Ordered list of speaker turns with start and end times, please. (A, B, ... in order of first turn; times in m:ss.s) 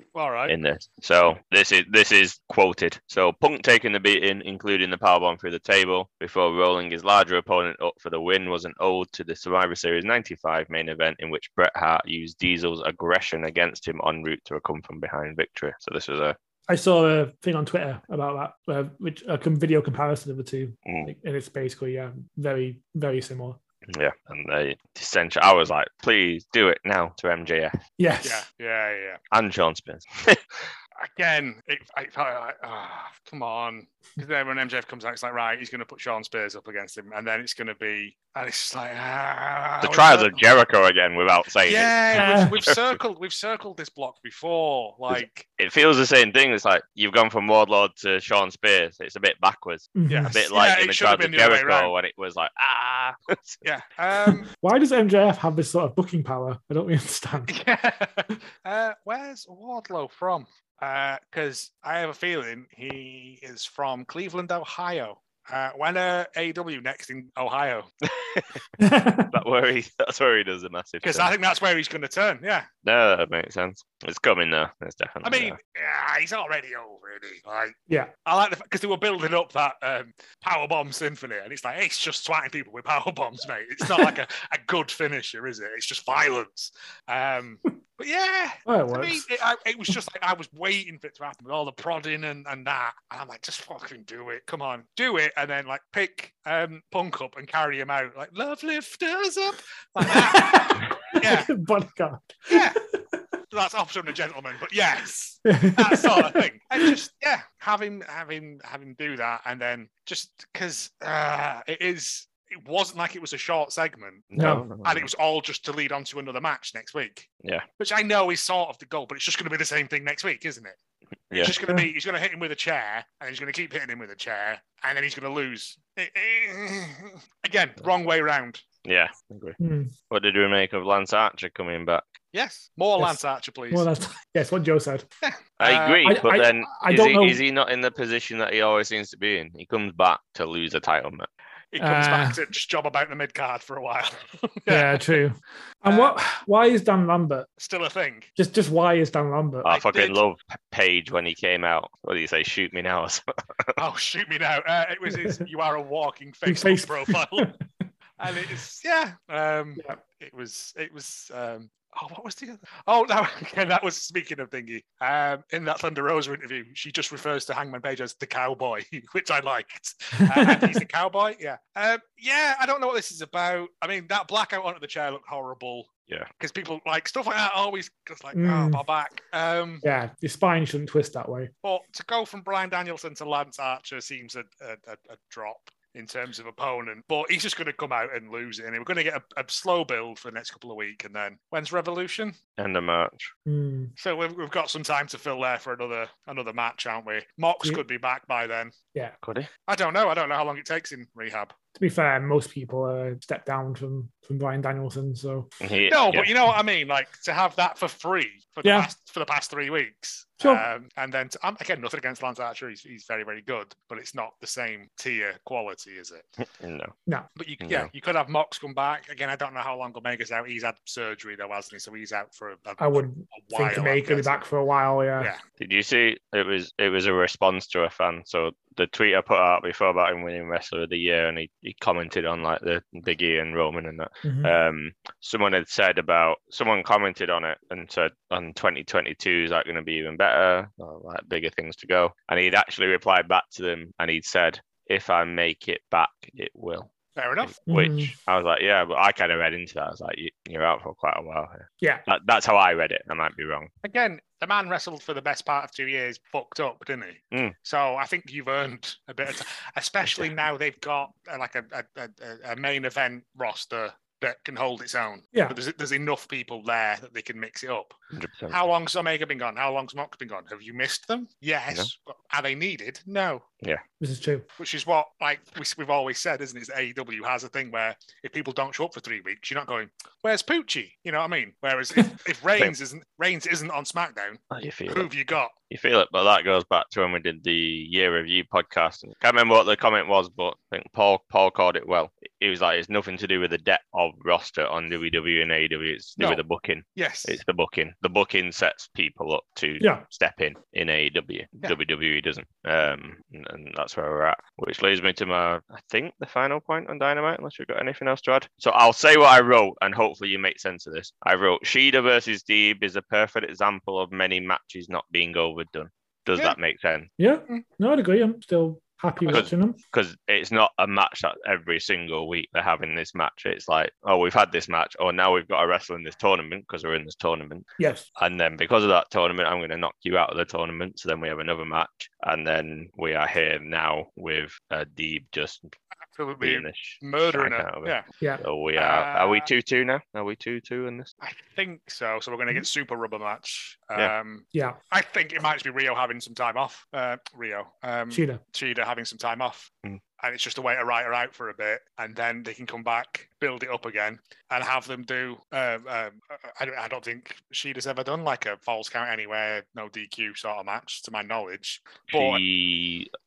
0:00.1-0:00.6 A
0:00.5-0:16.4 B
0:16.7-0:23.6 C
0:20.8-0:21.1 B
0:23.9-0:27.8 B
0:28.0-0:28.4 C
0:28.2-0:29.2 A
0:29.3-0:30.7 B
0:31.0-0:40.4 A
0:39.8-0:43.0 B
0:41.6-0:45.5 A
0:42.1-0:42.5 C
0:45.1-0:53.6 B
0:50.0-0:50.4 C
0:50.1-0:51.9 A
0:53.6-0:54.5 A
0:54.6-0:57.5 C
0:57.5-1:07.9 A
1:08.0-1:08.6 B
1:08.8-1:09.3 C
1:09.3-1:11.3 B
1:11.0-1:12.7 A
1:12.8-1:15.6 B
1:15.2-1:41.5 A
1:28.7-1:29.2 C
1:40.0-1:42.7 C
1:42.5-1:42.8 A
1:43.5-1:57.3 A
1:45.4-1:47.0 C
1:54.3-1:55.1 B
1:54.4-1:54.7 C
1:57.8-2:00.8 A
2:01.3-2:01.6 B
2:01.3-2:08.6 A
2:08.8-2:09.6 B
2:09.6-2:09.9 C
2:10.1-2:12.1 B
2:12.3-2:13.9 A
2:13.7-2:15.0 C
2:15.2-2:16.1 A
2:15.6-2:21.3 B
2:16.0-2:17.4 C
2:21.7-2:25.2 A
2:21.8-2:22.4 C
2:24.7-2:27.5 C
2:25.8-2:26.2 A
2:27.6-2:28.3 A
2:28.4-2:29.7 C
2:29.6-2:33.8 B
2:29.7-2:30.2 A
2:33.8-2:37.5 A
2:35.1-2:35.4 C
2:36.4-2:37.6 C
2:38.2-2:59.8 A
2:50.2-2:50.8 C
2:58.3-2:58.8 C
2:59.8-3:01.5 C
3:01.6-3:12.4 A
3:12.6-3:13.3 B
3:13.4-3:13.9 C
3:14.0-3:18.7 A
3:19.2-3:19.5 B
3:19.7-3:21.5 A
3:21.8-3:25.5 C
3:25.6-3:26.3 B
3:25.9-3:36.3 A
3:28.6-3:28.9 C
3:30.4-3:30.7 C
3:36.6-3:36.9 B
3:37.4-3:44.4 A
3:37.6-3:37.9 B
3:42.8-3:45.3 C
3:45.6-4:13.7 B
3:54.2-3:54.5 C
4:07.2-4:07.6 A
4:07.7-4:08.1 C
4:13.8-4:28.0 A
4:28.1-4:28.6 B
4:28.5-4:33.5 A
4:34.0-4:34.5 C
4:34.6-4:45.5 A
4:44.5-4:45.1 B
4:45.7-5:17.1 B
4:57.0-4:57.4 A
5:17.2-5:19.8 C
5:19.2-5:35.7 B
5:27.8-5:28.0 C
5:36.1-5:38.0 A
5:36.4-5:41.1 B
5:38.8-5:39.5 A
5:41.2-6:02.4 A
5:48.1-5:48.4 C
6:02.1-6:03.1 B